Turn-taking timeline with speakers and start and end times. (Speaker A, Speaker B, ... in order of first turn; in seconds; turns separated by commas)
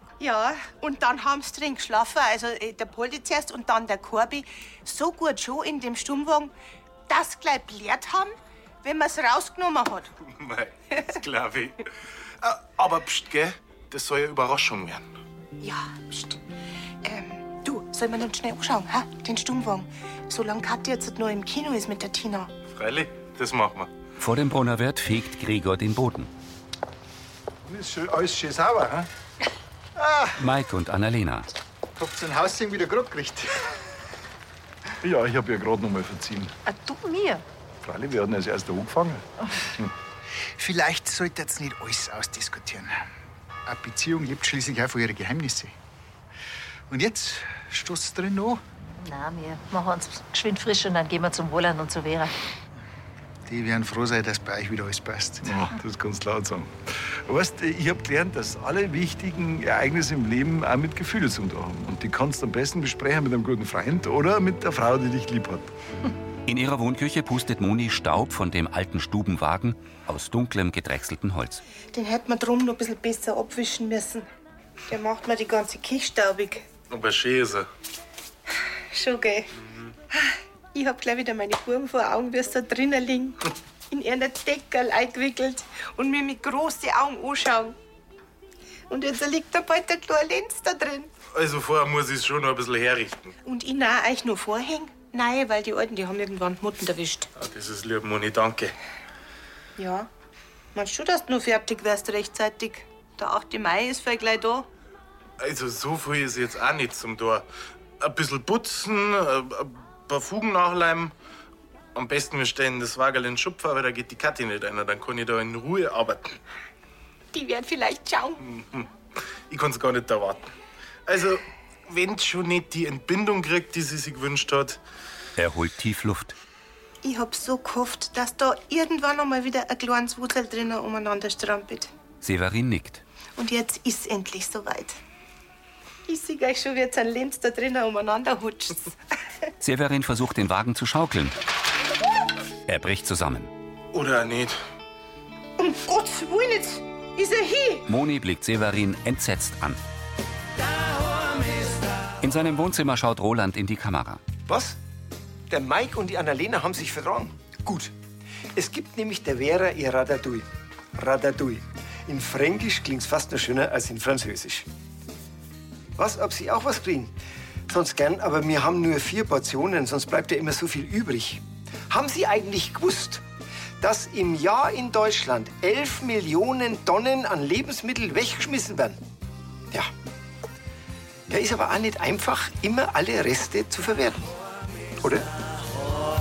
Speaker A: 0.2-6.5, Speaker A: 7.1-8.3, Speaker A: 8.8-10.1, Speaker B: 10.2-11.9, Speaker B: 12.4-15.1, Speaker A: 15.6-15.9, Speaker A: 17.0-22.5, Speaker B: 22.7-23.9, Speaker C: 24.2-26.3, Speaker D: 27.7-29.1, Speaker C: 30.4-31.5, Speaker E: 32.0-33.7, Speaker D: 35.0-36.5, Speaker F: 36.7-37.5, Speaker D: 37.8-39.9, Speaker E: 40.6-43.0, Speaker E: 43.7-45.7, Speaker E: 46.9-48.6, Speaker F: 49.0-52.4, Speaker E: 53.5-55.5, Speaker D: 55.4-65.7, Speaker C: 66.5-71.6, Speaker A: 71.9-74.3, Speaker A: 74.9-76.7, Speaker B: 76.9-77.7, Speaker A: 78.9-79.5, Speaker A: 80.1-87.8, Speaker A: 88.9-91.1, Speaker B: 91.3-93.3, Speaker A: 93.5-97.3, Speaker B: 97.4-98.7, Speaker A: 99.8-100.1, Speaker A: 100.7-104.7, Speaker B: 105.4-107.5, Speaker B: 108.0-111.1, Speaker B: 111.9-116.4, Speaker A: 117.3-118.4, Speaker B: 118.5-118.9, Speaker B: 119.5-120.5, Speaker B: 121.1-124.8, Speaker C: 125.4-126.3, Speaker A: 127.0-131.9, Speaker C: 132.2-133.0, Speaker A: 133.4-135.0, Speaker A: 136.1-138.9, Speaker C: 139.6-141.4, Speaker C: 142.7-143.5, Speaker B: 143.9-144.6, Speaker A: 145.6-147.9, Speaker C: 147.9-149.8, Speaker C: 152.2-154.2, Speaker G: 154.5-154.8, Speaker G: 155.5-157.9, Speaker G: 158.6-164.7, Speaker G: 166.0-167.1, Speaker G: 167.7-173.2, Speaker G: 173.8-179.0, Speaker G: 181.3-184.3, Speaker G: 185.0-185.3